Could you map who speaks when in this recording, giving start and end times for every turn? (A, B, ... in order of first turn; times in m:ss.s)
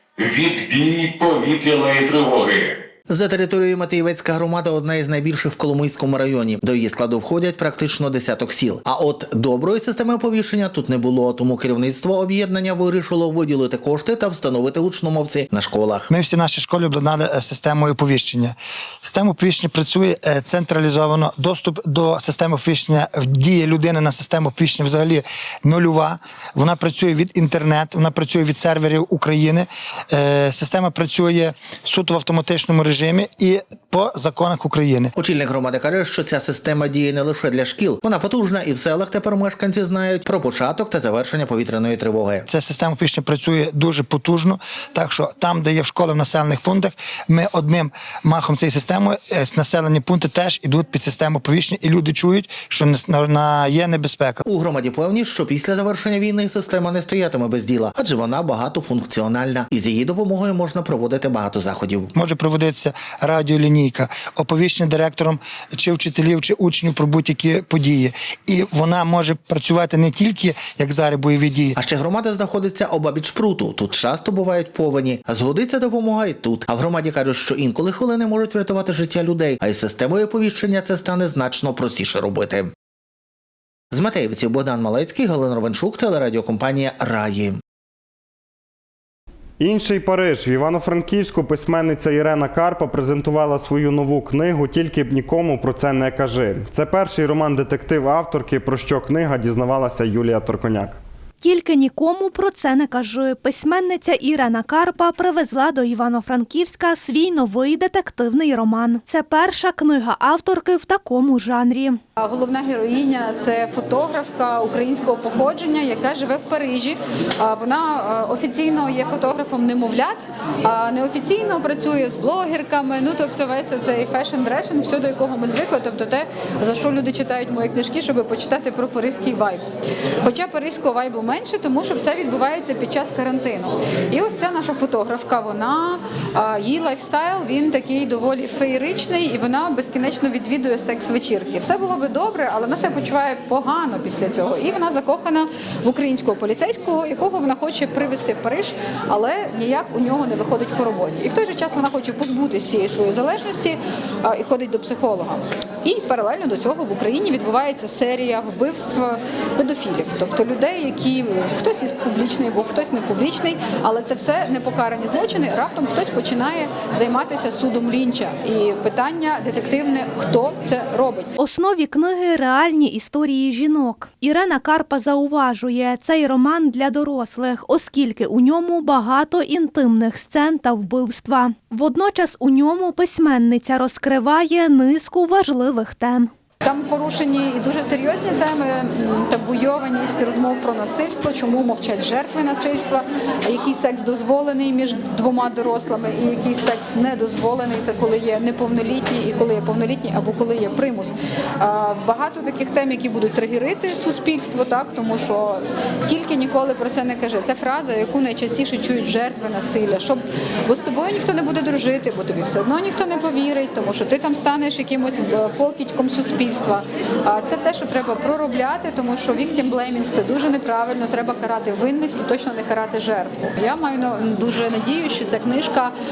0:00.2-0:02.7 A
0:03.1-0:16.1 B
0:16.1-0:35.1 C
0:35.2-0:42.5 B
0:42.5-0:54.4 C
0:54.4-1:02.1 B
1:02.1-1:11.8 C
1:11.8-1:22.7 B
1:23.9-1:27.6 B
1:29.6-1:41.0 D
1:41.4-1:52.0 E
1:52.2-2:09.6 F
2:10.2-2:51.3 F
2:51.4-3:06.3 E
3:06.6-3:45.9 F